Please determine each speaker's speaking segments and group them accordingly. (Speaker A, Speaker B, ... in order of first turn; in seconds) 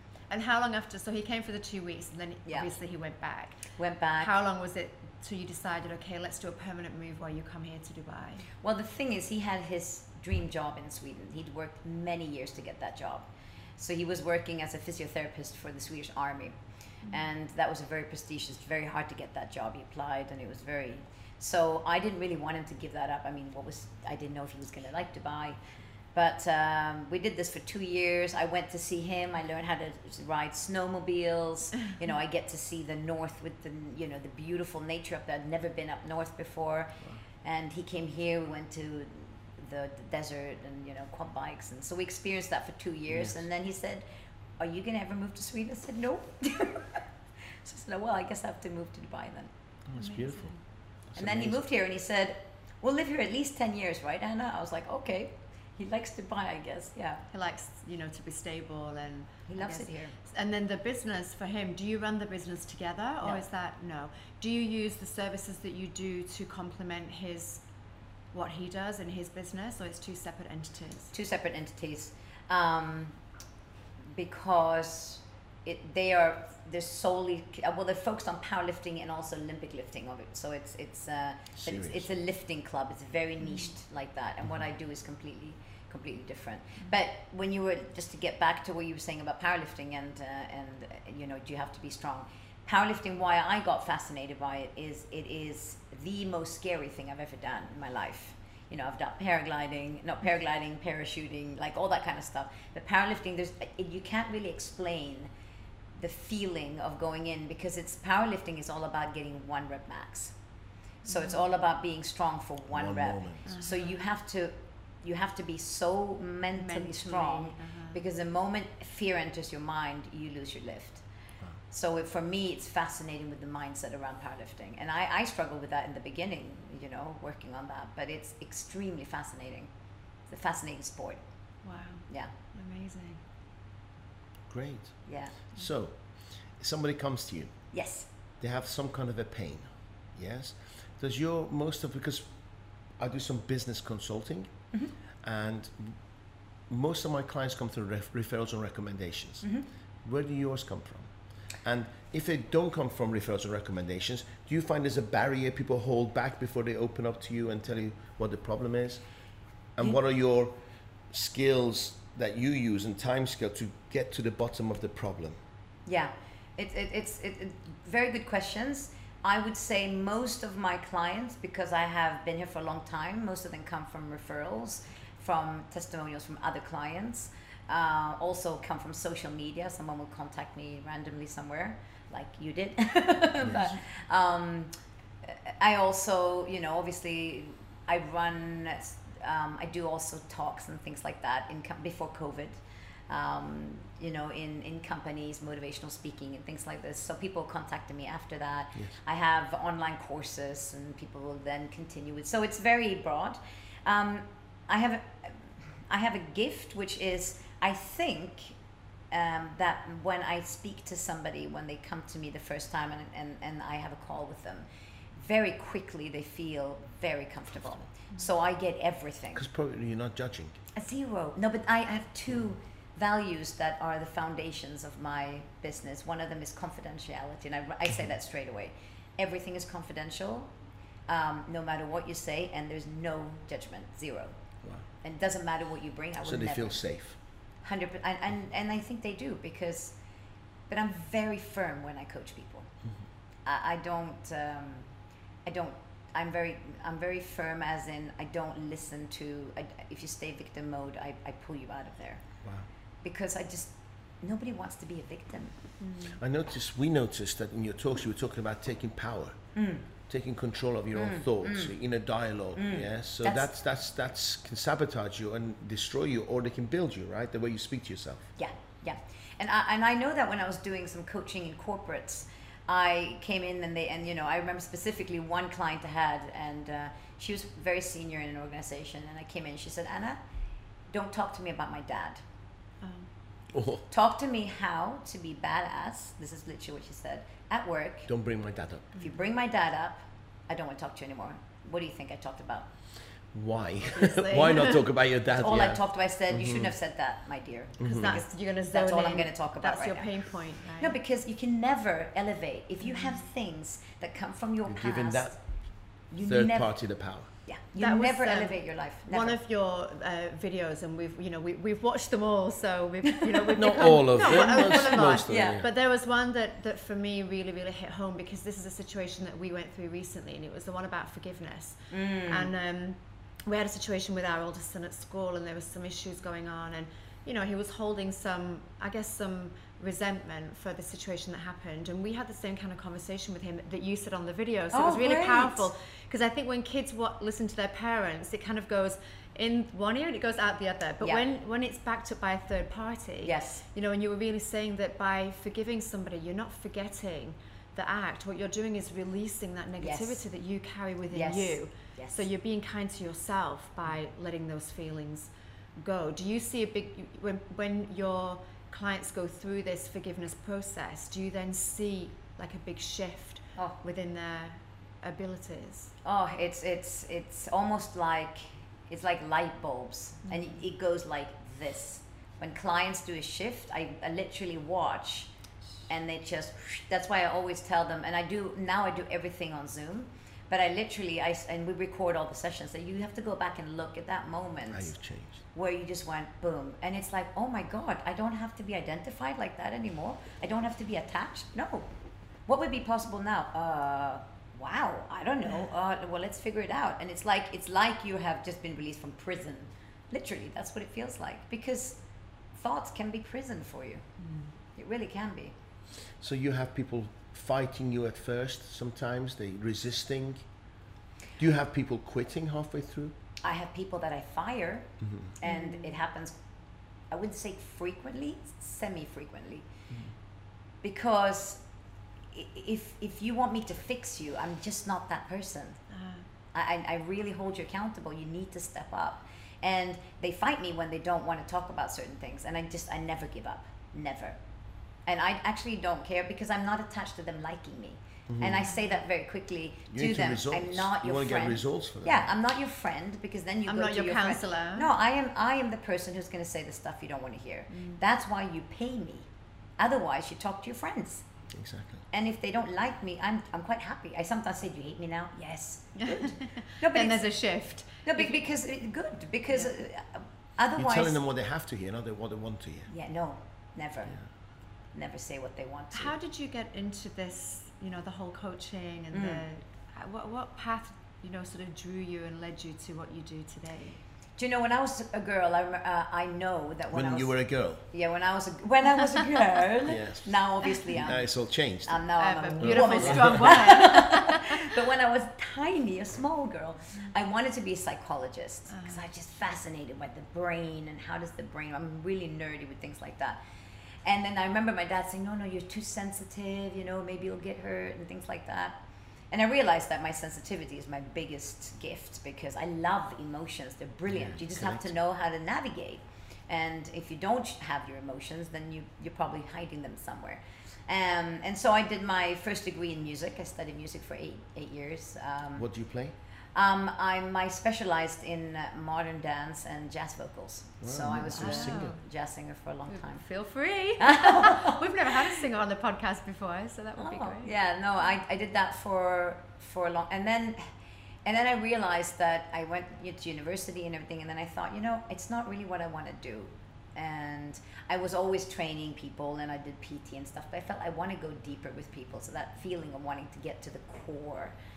Speaker A: 0.3-8.4, 50.0-50.6, 57.3-67.6, 68.3-71.1, 111.0-111.4, 113.4-114.0, 116.5-118.0, 131.6-133.2, 255.8-256.2, 282.8-283.1, 293.9-294.9, 297.8-301.0, 302.8-303.2, 307.8-365.9, 370.2-370.6, 404.2-404.5, 415.4-416.0, 425.9-426.2, 443.7-444.9, 447.7-448.0, 455.9-458.4, 459.5-459.7, 465.9-474.0, 482.1-484.7, 488.7-489.0, 521.4-522.0, 522.9-527.5
Speaker B: 3.8-4.3, 8.6-13.2, 13.8-16.5, 17.1-25.6, 26.1-44.0, 44.6-47.0, 47.6-49.5, 51.1-57.2, 59.5-60.1, 71.1-73.2, 74.1-105.3, 106.0-110.3, 111.0-121.0, 121.7-129.7, 130.3-131.2, 135.1-135.4, 137.7-138.1, 165.8-184.7, 185.2-208.6, 209.1-219.4, 220.7-230.5, 231.1-234.3, 235.0-236.8, 237.6-239.9, 240.7-242.7, 243.4-244.9, 245.4-252.2, 253.0-255.5, 259.5-259.9, 260.9-261.8, 262.5-263.5, 268.4-280.2, 280.9-282.2, 283.9-288.1, 288.9-292.7, 295.3-305.4, 306.1-306.8, 307.3-309.4, 314.2-315.6, 321.9-322.5, 334.7-335.7, 343.2-343.6, 349.8-350.2, 351.1-352.3, 366.0-375.3, 375.9-384.9, 385.5-391.9, 392.5-402.0, 402.5-404.0, 404.7-405.5, 413.4-416.4, 417.1-419.6, 420.8-421.6, 422.3-425.8, 426.5-434.4, 435.1-449.3, 449.8-451.2, 452.1-457.2, 458.0-461.2, 462.9-464.2, 464.9-466.1, 469.1-469.4, 474.4-481.2, 481.9-493.4, 494.0-498.8, 499.3-515.7, 516.5-523.2, 524.0-524.9, 527.0-530.7, 531.2-544.5
Speaker C: 43.1-43.4, 49.9-50.5, 51.1-51.6, 81.5-82.1, 112.7-113.5, 134.5-137.5, 138.4-142.3, 143.0-144.5, 145.2-146.0, 146.7-149.4, 150.0-159.0, 159.8-160.5, 161.1-165.3, 219.3-220.6, 236.2-237.2, 256.2-259.4, 260.1-268.2, 283.5-283.8, 288.1-288.9, 293.3-296.7, 297.8-298.2, 304.6-305.4, 306.2-307.3, 313.5-315.7, 384.7-385.4, 406.2-410.4, 411.4-413.1, 415.0-415.3, 438.3-438.7, 439.9-442.3, 451.5-452.0, 460.7-462.9, 476.9-477.8, 479.8-480.4, 480.9-482.0, 482.6-483.5, 504.1-504.9, 515.5-516.1, 520.8-522.0